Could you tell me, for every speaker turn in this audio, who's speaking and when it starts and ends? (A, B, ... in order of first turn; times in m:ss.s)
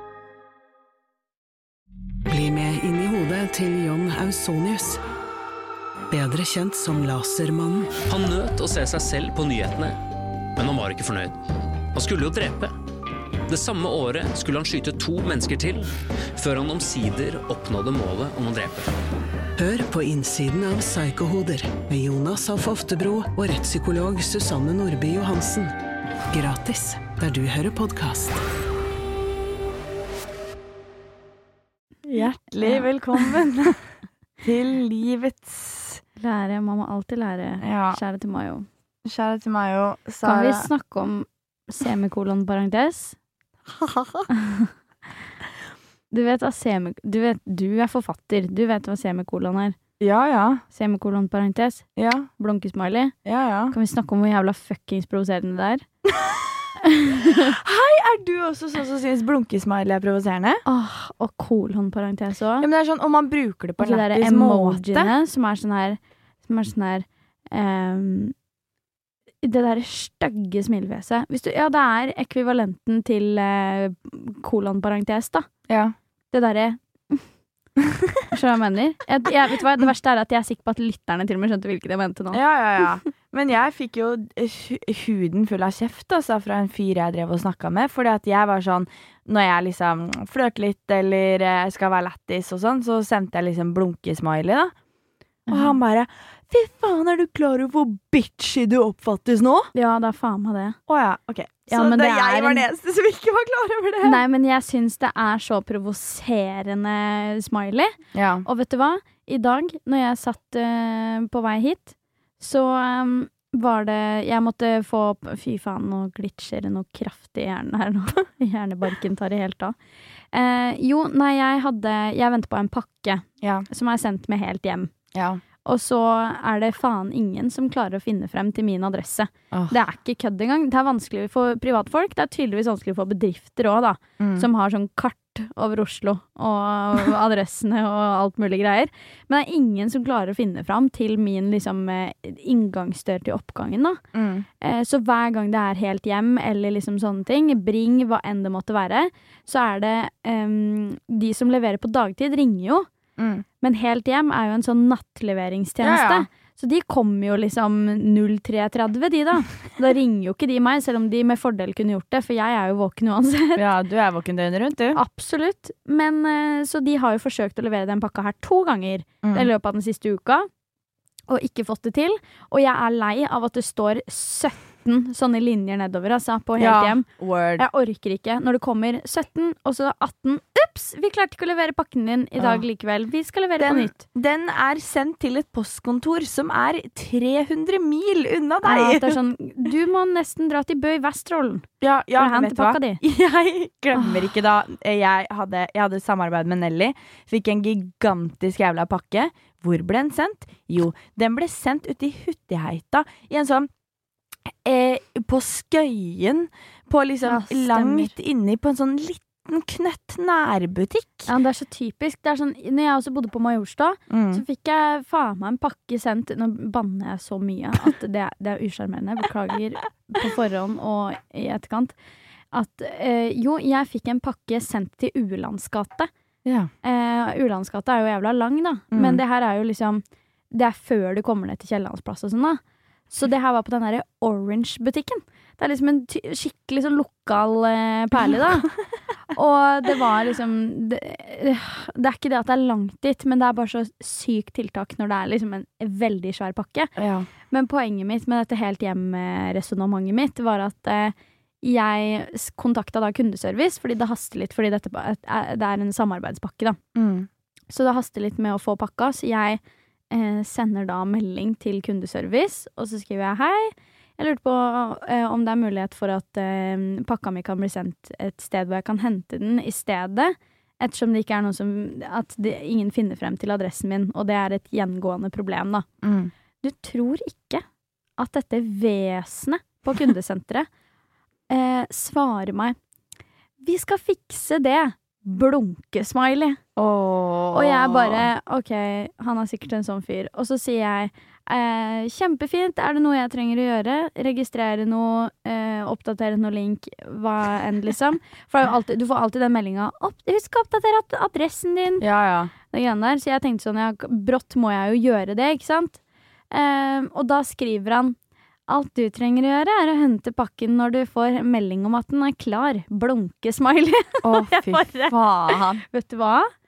0:02.3-0:05.0 A
0:06.1-0:08.0 A
0:08.0-0:10.0 B
0:10.6-0:11.4 B
0:11.9-0:12.8 B
0:13.5-0:18.9 B
0:19.6-0:25.7 A
0:26.3-0:28.4 A
0:32.1-0:33.8 C
0:32.6-0:32.9 D
0:34.4-0:36.0 C
0:36.2-0:38.7 D
0:37.6-0:38.0 C
0:39.0-0:40.7 C
0:40.2-0:43.2 D
0:43.7-0:44.3 C
0:44.4-0:44.7 D
0:46.1-0:49.8 D
0:50.0-0:50.6 C
0:50.7-0:51.9 D
0:52.0-0:52.3 C
0:52.4-0:53.2 D
0:53.2-0:53.7 C
0:53.7-0:55.8 D
0:56.1-0:56.6 C
0:56.9-0:57.5 D
0:57.3-1:00.6 C
1:00.7-1:02.7 D
1:02.6-1:05.1 C
1:03.8-1:08.3 D
1:09.4-1:15.5 D
1:15.7-1:16.0 C
1:16.3-1:17.3 D
1:18.3-1:22.4 D
1:22.3-1:34.7 C
1:35.5-1:39.7 C
1:39.7-1:40.8 D
1:40.9-1:44.2 C
1:41.7-1:42.7 D
1:44.0-1:59.8 D
1:48.1-1:48.5 C
2:00.3-2:04.9 D
2:03.4-2:03.7 C
2:05.1-2:05.4 C
2:05.6-2:24.0 D
2:14.2-2:14.5 C
2:24.1-2:24.5 C
2:24.6-2:32.9 D
2:33.2-2:33.4 C
2:33.6-2:43.6 D
2:35.8-2:36.3 C
2:43.6-2:45.0 C
2:45.0-2:50.5 D
2:49.2-2:49.5 C
2:51.3-2:57.1 D
2:56.6-2:57.6 C
2:57.6-3:04.0 D
3:02.4-3:02.6 C
3:03.6-3:09.2 C
3:08.6-3:13.0 D
3:11.8-3:23.7 C
3:13.9-3:14.3 D
3:24.6-3:31.3 C
3:27.2-3:28.1 D
3:31.3-3:42.0 D
3:34.1-3:34.4 C
3:42.5-3:46.1 D
3:46.4-3:46.7 C
3:46.8-3:58.7 D
3:48.9-3:49.2 C
3:59.3-4:06.9 D
4:07.0-4:07.3 C
4:07.5-4:16.8 D
4:17.0-4:17.3 C
4:17.7-4:35.9 D
4:36.0-4:36.3 C
4:36.6-4:37.6 D
4:38.2-4:40.7 D
4:41.5-4:42.8 D
4:43.6-4:46.6 D
4:46.8-4:48.3 C
4:47.5-5:02.0 D
5:02.0-5:02.5 C
5:02.7-5:06.0 D
5:06.5-5:08.2 D
5:08.7-5:16.5 D
5:14.2-5:15.8 C